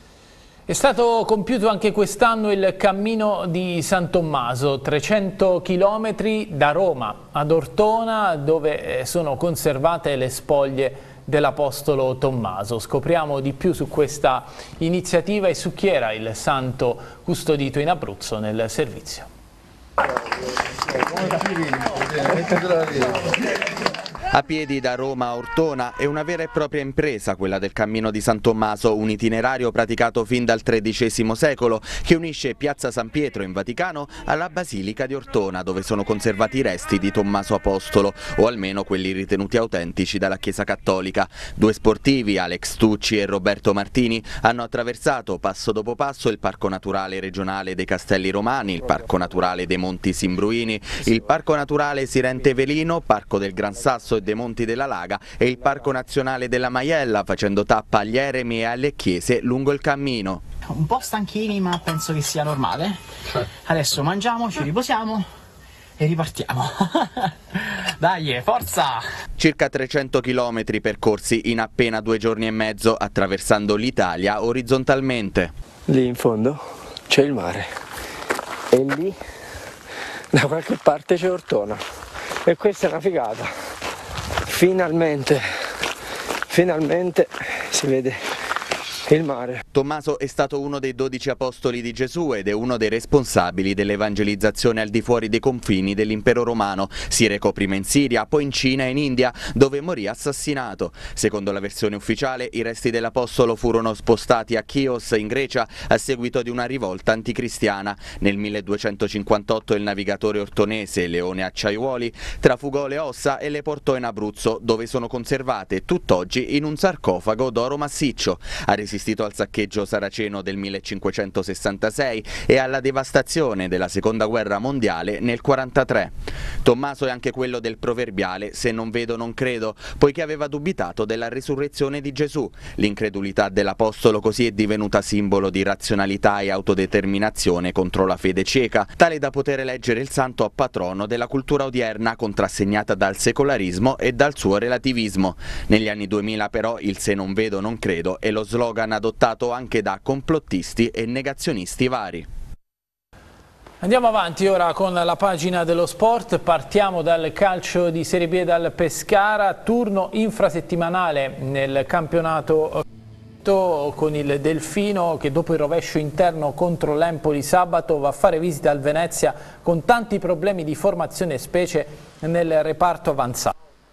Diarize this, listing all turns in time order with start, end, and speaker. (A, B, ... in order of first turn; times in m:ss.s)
0:00.7-0:19.3 A
0:24.3-1:00.4 B
1:00.7-1:03.0 C
1:03.6-1:05.3 C
1:06.0-1:09.1 C
1:09.4-1:15.5 B
1:15.9-1:17.8 D
1:18.7-1:19.2 D
1:20.3-1:21.8 D
1:22.4-1:23.5 D
1:24.5-1:25.5 D
1:26.5-1:28.3 D
1:29.0-1:29.6 D
1:29.7-2:32.3 B
2:33.8-2:42.8 A
2:43.4-2:53.6 A